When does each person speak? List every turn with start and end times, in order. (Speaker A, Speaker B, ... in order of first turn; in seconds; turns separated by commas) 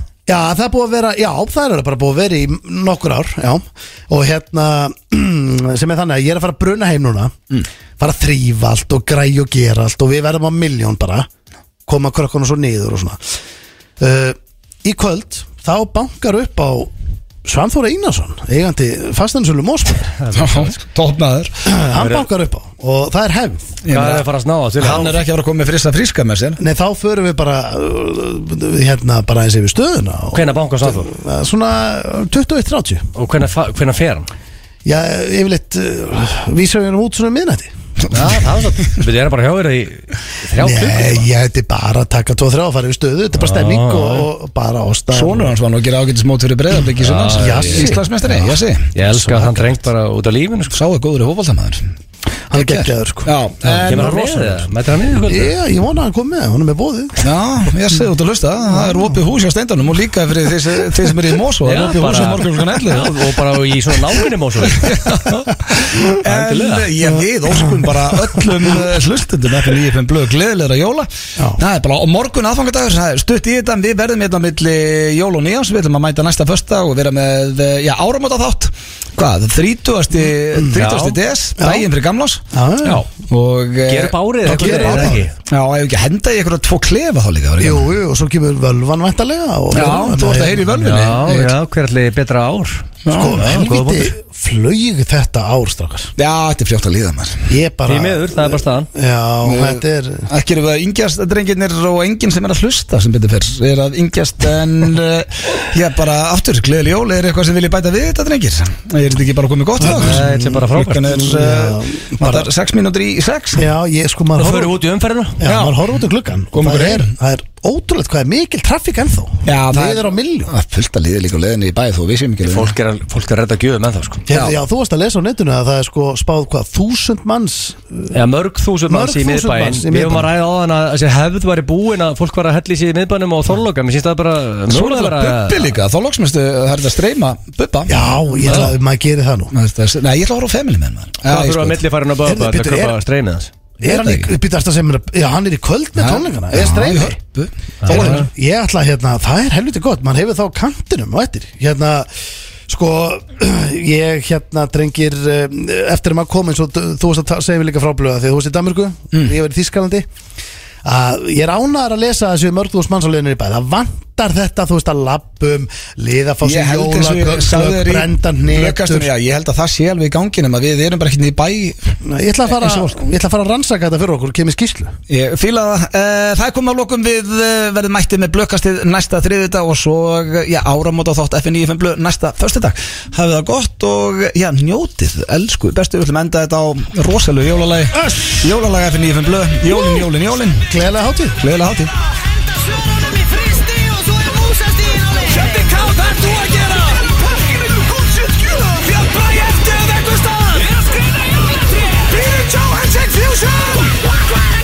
Speaker A: 0.2-7.3, Speaker A: 8.0-11.3, Speaker A: 11.9-13.2, Speaker A: 14.0-16.9, Speaker A: 17.4-20.1, Speaker B: 20.2-20.8, Speaker C: 20.3-21.6, Speaker A: 21.6-23.8, Speaker B: 21.9-22.3, Speaker C: 23.8-24.2, Speaker B: 23.9-25.2, Speaker C: 24.8-26.6, Speaker A: 26.6-33.0, Speaker B: 30.3-31.1, Speaker B: 33.1-34.3, Speaker A: 34.8-37.7, Speaker B: 38.1-41.3, Speaker A: 40.6-45.5, Speaker B: 43.4-44.3, Speaker C: 45.1-48.9, Speaker B: 47.0-47.9, Speaker A: 47.4-48.1, Speaker B: 48.9-50.7, Speaker A: 49.0-49.8, Speaker C: 50.7-51.9, Speaker A: 52.5-54.3, Speaker C: 52.5-54.6, Speaker B: 53.8-55.5, Speaker A: 55.3-57.3, Speaker C: 57.2-63.4, Speaker B: 61.6-66.9, Speaker C: 64.7-82.4, Speaker B: 80.7-81.2, Speaker A: 81.6-81.8, Speaker A: 82.5-83.0, Speaker C: 83.1-87.9, Speaker B: 83.8-85.3, Speaker A: 84.4-85.3, Speaker A: 87.6-90.6, Speaker C: 89.7-91.5, Speaker B: 90.8-94.1, Speaker C: 93.0-93.4, Speaker A: 93.1-96.1, Speaker C: 96.2-97.5, Speaker A: 97.5-100.3, Speaker B: 97.9-98.9, Speaker C: 99.4-113.7, Speaker A: 109.8-112.5, Speaker B: 109.9-111.1, Speaker A: 113.5-114.8, Speaker B: 114.4-115.4, Speaker A: 115.4-120.5, Speaker C: 115.4-115.8, Speaker C: 116.5-117.1, Speaker C: 119.4-122.7, Speaker B: 122.4-124.2, Speaker A: 124.3-128.2, Speaker C: 124.3-124.6, Speaker B: 128.1-135.7, Speaker A: 128.9-130.3, Speaker C: 134.7-138.7, Speaker A: 137.9-139.5, Speaker C: 139.5-141.8, Speaker B: 141.2-143.5, Speaker A: 142.2-143.0, Speaker A: 143.8-147.2, Speaker C: 143.8-144.3, Speaker C: 146.0-148.2, Speaker B: 147.8-148.3, Speaker A: 147.8-152.1, Speaker A: 152.7-160.1, Speaker A: 160.8-169.1, Speaker C: 166.4-171.9, Speaker A: 172.0-174.9, Speaker C: 172.5-173.0, Speaker C: 175.1-190.7, Speaker A: 187.9-188.5, Speaker A: 190.6-191.4, Speaker C: 191.4-191.9, Speaker A: 193.0-195.7, Speaker C: 195.3-200.4, Speaker C: 202.2-203.9